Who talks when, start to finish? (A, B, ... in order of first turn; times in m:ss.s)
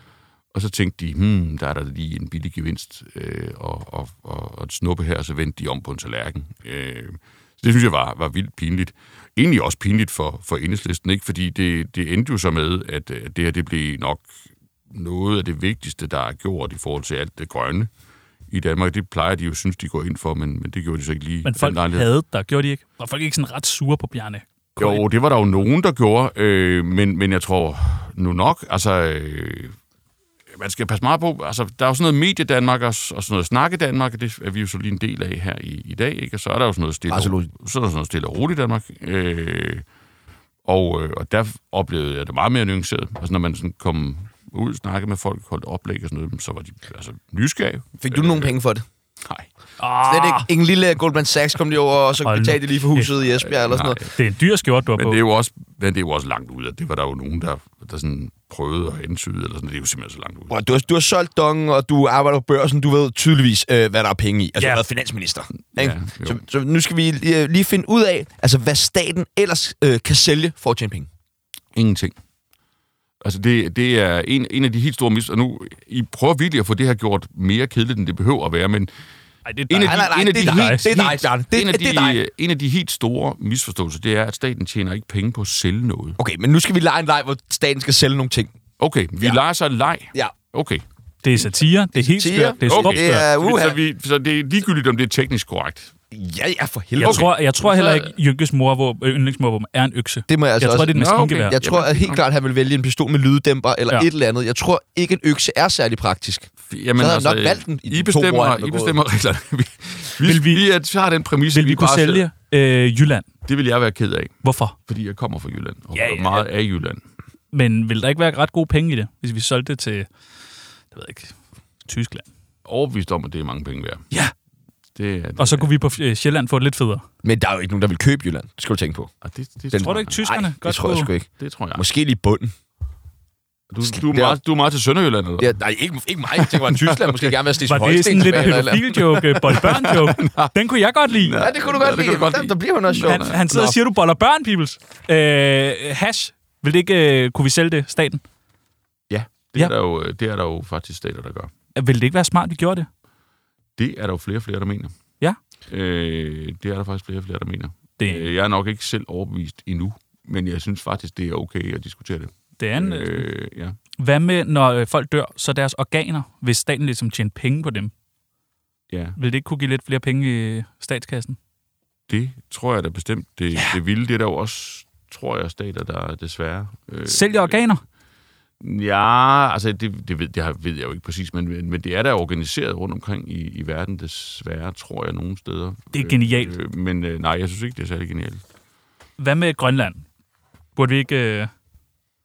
0:00.5-0:14.3 A
0:14.9-0:17.9 A
0:18.5-0:22.1 A
0:21.4-0:25.0 B
0:24.8-0:29.8 A
0:30.5-0:39.8 A
0:37.1-0:37.5 C
0:40.6-0:48.5 A
0:48.0-0:48.8 C
0:49.2-0:49.5 A
0:49.8-0:50.5 B
0:50.0-0:54.0 C
0:52.2-0:53.1 B
0:53.4-0:54.1 A
0:54.0-0:55.2 B
0:55.0-1:00.7 A
1:00.5-1:11.1 C
1:04.6-1:04.8 B
1:05.7-1:06.4 A
1:11.7-1:12.2 A
1:13.2-1:18.9 A
1:19.5-1:20.8 B
1:19.7-1:26.2 A
1:19.7-1:22.2 C
1:26.2-1:28.5 C
1:28.8-1:30.8 A
1:31.2-1:33.2 B
1:32.0-1:33.8 C
1:32.6-1:35.9 A
1:36.1-1:37.3 C
1:37.0-1:38.1 A
1:37.0-1:41.6 B
1:40.3-1:49.0 C
1:40.7-1:42.2 A
1:46.7-1:52.2 A
1:50.2-1:50.6 B
1:51.5-1:53.3 B
1:53.5-1:57.0 A
1:54.4-1:54.8 B
1:55.9-1:56.4 B
1:57.5-2:00.1 B
2:00.9-2:02.3 B
2:02.7-2:04.0 A
2:05.0-2:05.7 A
2:05.4-2:07.0 B
2:07.2-2:09.1 C
2:09.2-2:10.2 A
2:09.7-2:12.5 C
2:09.8-2:11.1 B
2:11.4-2:11.8 A
2:13.7-2:15.6 A
2:13.8-2:14.4 C
2:15.4-2:19.0 C
2:16.3-2:17.4 A
2:17.6-2:21.4 B
2:19.2-2:20.5 A
2:21.1-2:23.4 A
2:21.4-2:23.8 C
2:23.0-2:28.2 B
2:29.1-2:31.5 A
2:31.8-2:32.9 B
2:33.8-2:34.9 A
2:35.7-2:43.8 A
2:38.0-2:38.3 B
2:42.6-2:43.3 B
2:44.0-2:47.9 B
2:48.9-2:49.2 A
2:49.2-2:51.4 B
2:52.1-2:57.6 A
2:57.1-2:57.8 B
2:58.6-3:08.4 A
3:05.9-3:06.6 B
3:09.2-3:10.1 B
3:10.8-3:11.5 B